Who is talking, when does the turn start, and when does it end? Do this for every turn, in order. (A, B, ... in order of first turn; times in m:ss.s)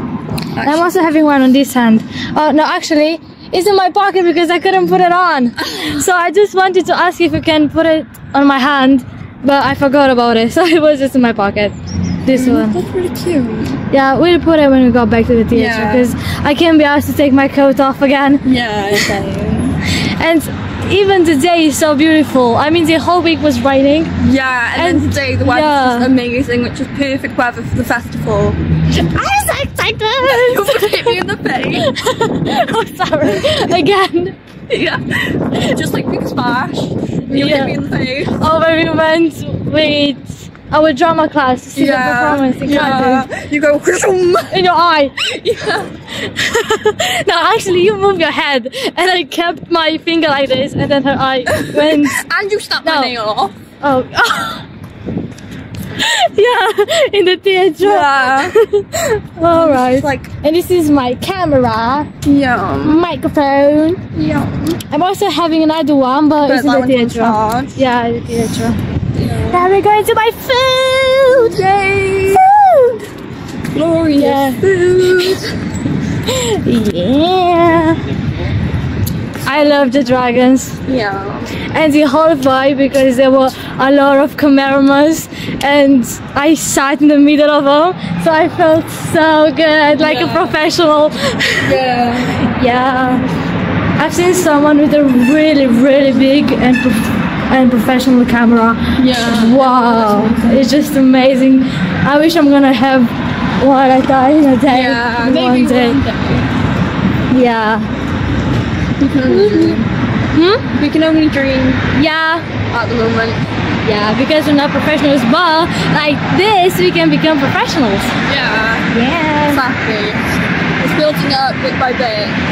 0:00.6-0:00.9 A
0:00.6-0:12.8 B
0:12.3-0:13.8 A
0:13.9-0:18.4 B
0:15.5-0:16.1 A
0:18.4-0:19.8 A
0:20.2-0:24.1 B
0:24.2-0:28.6 A
0:24.8-0:26.1 B
0:28.9-0:31.2 B
0:30.2-0:31.9 A
0:31.8-0:34.3 B
0:33.3-0:33.7 A
0:34.7-0:38.4 A
0:37.3-0:37.7 B
0:38.4-0:43.3 B
0:41.8-0:44.6 A
0:44.5-0:45.2 B
0:45.2-0:45.9 A
0:46.3-0:52.2 B
0:51.5-0:53.5 A
0:52.8-0:53.1 B
0:53.8-0:54.6 B
0:56.0-1:02.1 B
0:57.8-0:58.5 A
0:59.5-1:00.3 A
1:02.2-1:03.0 A
1:02.8-1:04.0 B
1:04.1-1:04.8 A
1:04.9-1:08.8 B
1:06.4-1:07.8 A
1:09.2-1:09.7 A
1:09.5-1:11.6 B
1:11.4-1:12.5 A
1:12.3-1:13.0 B
1:13.7-1:15.5 A
1:14.2-1:14.6 B
1:16.3-1:18.0 B
1:19.4-1:20.8 B
1:20.9-1:21.5 A
1:21.7-1:31.8 B
1:30.0-1:30.6 A
1:31.6-1:32.4 A
1:32.5-1:33.2 B
1:34.0-1:46.0 B
1:39.0-1:40.5 A
1:44.7-1:46.5 A
1:47.3-1:47.9 B
1:49.0-1:49.9 A
1:49.2-1:50.7 B
1:50.7-1:51.8 A
1:51.9-1:52.5 B
1:52.7-1:53.4 A
1:53.8-1:58.1 B
1:58.3-1:58.9 A
1:58.9-1:59.6 B
1:59.5-2:00.2 A
2:00.8-2:02.4 A